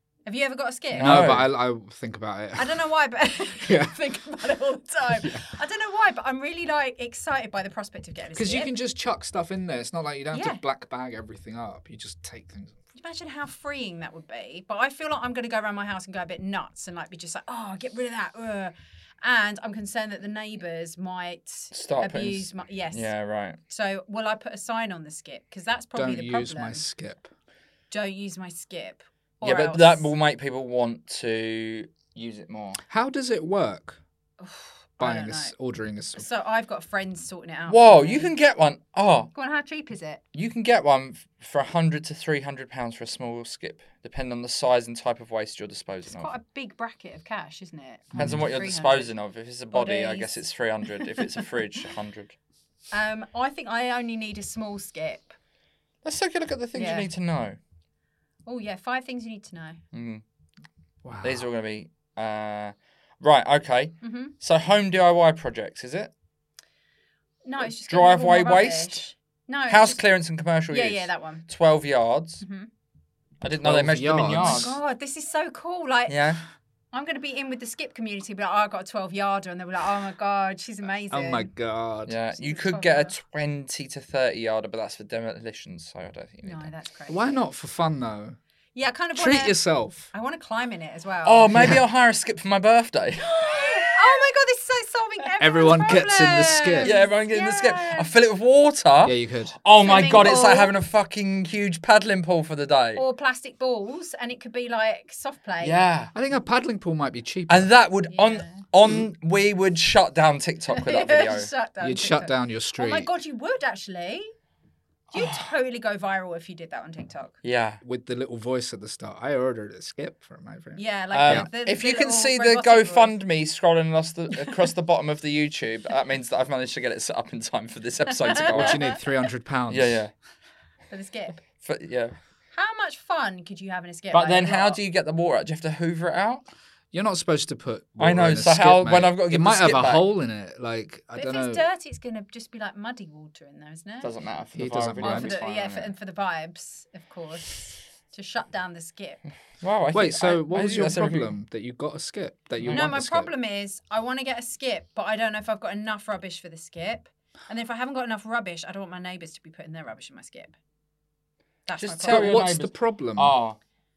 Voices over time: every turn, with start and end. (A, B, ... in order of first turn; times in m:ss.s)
0:00.2-0:01.3 A
0:00.9-0:01.5 B
0:01.0-0:02.8 C
0:02.6-0:08.7 A
0:03.6-0:04.0 C
0:05.1-0:05.4 C
0:08.3-0:12.8 C
0:10.3-0:10.6 A
0:12.9-0:23.1 A
0:21.7-0:23.6 B
0:23.7-0:26.9 A
0:25.9-0:27.3 C
0:27.9-0:30.1 A
0:29.4-0:32.8 B
0:32.9-0:34.0 C
0:34.4-0:35.5 A
0:35.0-0:36.2 C
0:36.1-0:38.3 A
0:37.7-0:39.3 B
0:39.3-0:40.2 A
0:40.3-0:46.3 B
0:46.1-0:49.1 A
0:48.1-0:48.4 C
0:48.2-0:52.4 B
0:49.7-0:50.4 A
0:52.9-0:55.4 A
0:56.0-0:57.6 B
0:56.7-0:57.1 A
0:58.4-0:59.8 A
0:59.9-1:00.2 B
1:01.0-1:01.5 C
1:01.2-1:06.1 B
1:04.0-1:04.3 A
1:07.4-1:10.0 A
1:07.6-1:09.1 B
1:09.7-1:12.4 B
1:10.7-1:11.4 A
1:12.4-1:12.7 A
1:13.4-1:14.8 B
1:13.6-1:14.8 C
1:14.3-1:16.3 A
1:16.1-1:16.4 B
1:16.9-1:21.5 A
1:21.1-1:22.2 C
1:22.0-1:26.7 B
1:22.4-1:23.2 A
1:26.4-1:27.4 A
1:27.1-1:28.4 C
1:28.7-1:31.8 A
1:29.1-1:30.1 C
1:31.2-1:33.9 B
1:31.5-1:31.8 C
1:33.2-1:38.1 A
1:35.4-1:36.9 C
1:36.8-1:43.0 B
1:39.0-1:39.6 C
1:39.8-1:40.7 A
1:42.9-1:45.8 A
1:45.6-1:46.1 B
1:46.1-1:47.7 C
1:47.5-1:51.5 B
1:48.1-1:48.6 A
1:50.7-1:54.3 A
1:51.8-1:53.1 C
1:55.1-1:57.3 A
1:55.1-1:55.5 B
1:57.4-1:57.8 B
1:57.8-2:01.5 C
2:00.8-2:03.2 A
2:01.1-2:08.9 B
2:08.2-2:09.0 A
2:08.5-2:10.0 C
2:09.7-2:10.1 B
2:10.9-2:11.4 A
2:11.6-2:12.2 B
2:12.5-2:14.8 A
2:14.1-2:16.4 B
2:16.9-2:21.6 C
2:18.0-2:20.0 B
2:21.2-2:24.1 A
2:24.0-2:25.9 B
2:24.5-2:25.3 C
2:25.0-2:29.2 A
2:29.6-2:31.3 B
2:29.9-2:33.3 C
2:32.6-2:32.9 B
2:32.7-2:40.5 A
2:41.7-2:42.4 A
2:41.8-2:43.6 B
2:42.0-2:43.4 C